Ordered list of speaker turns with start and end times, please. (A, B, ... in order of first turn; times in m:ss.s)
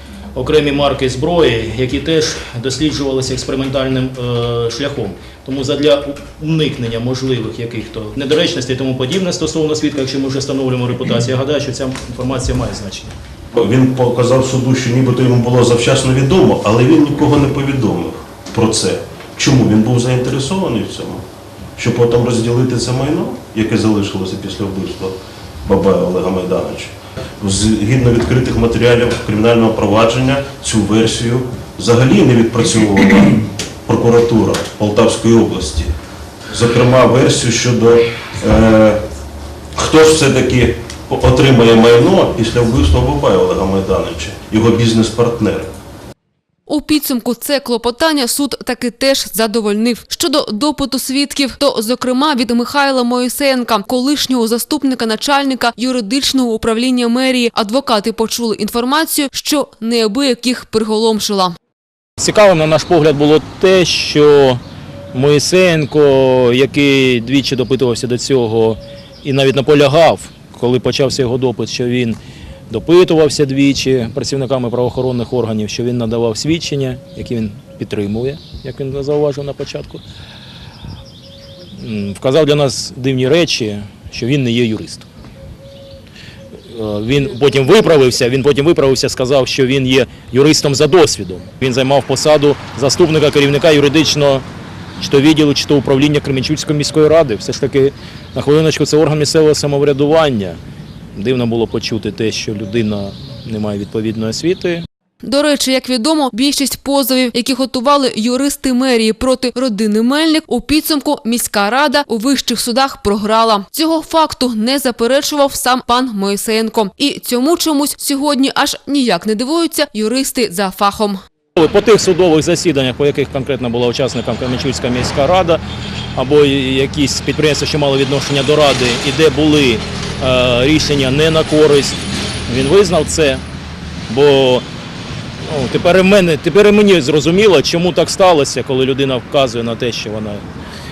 0:00.3-0:13.2 A
0:13.6-0:21.2 B
0:21.8-0:35.9 B
0:36.5-0:39.0 B
0:39.8-0:45.7 B
0:46.7-1:01.6 C
1:02.2-1:04.6 A
1:05.1-1:12.2 A
1:12.7-1:20.0 A
1:21.8-1:25.1 A
1:26.7-1:34.4 A
1:35.0-1:40.6 A
1:41.2-1:44.9 A
1:45.2-2:01.2 C
2:01.6-2:05.6 A
2:06.2-2:13.4 A
2:14.1-2:14.6 A
2:15.4-2:20.4 A